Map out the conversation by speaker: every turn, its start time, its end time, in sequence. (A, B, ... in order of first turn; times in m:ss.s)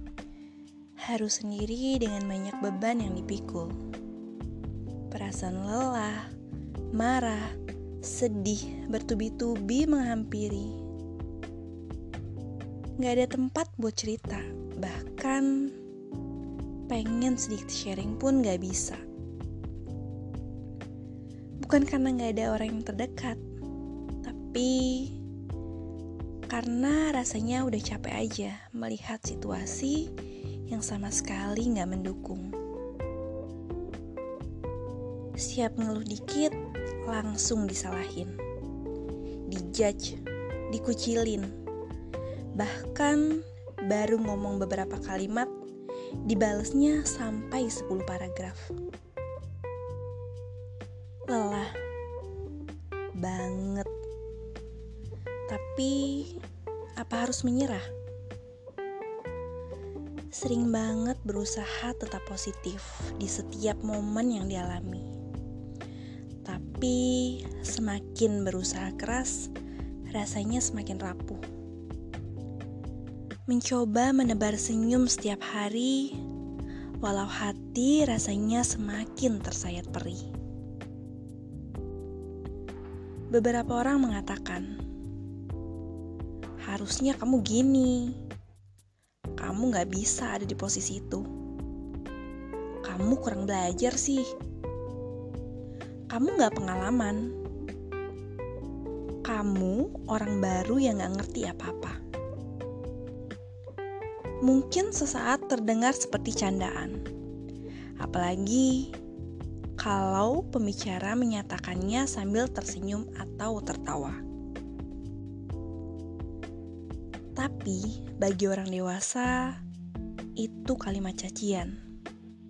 0:01.0-0:03.7 A
0:05.1-0:06.3 A
0:06.9-0:10.8 A
0:13.0-0:15.7 A
0:16.9-0:19.0 A
0:21.6-0:23.4 A
0:24.2-0:25.2 A
0:26.5-0:30.1 A
0:30.7-0:32.5 A
0:35.4-0:38.4 A
0:39.5-0:41.5 A
0:42.6-0:45.5 A
0:46.2-0:48.8 A
0:51.3-0:51.8 A
0:53.2-0:53.9 A
0:55.5-0:56.4 A
0:57.0-0:57.9 A
1:00.3-1:05.1 A
1:06.4-1:09.5 A
1:10.1-1:11.4 A
1:13.5-1:16.2 A
1:17.0-1:20.2 A
1:23.3-1:24.7 A
1:26.7-1:28.2 A
1:29.4-1:31.2 A
1:32.8-1:34.3 A
1:36.1-1:37.3 A
1:39.2-1:42.0 A
1:44.4-1:47.0 A
1:48.0-1:48.9 A
1:49.8-1:54.2 A
1:57.4-1:59.6 A
2:00.4-2:01.8 A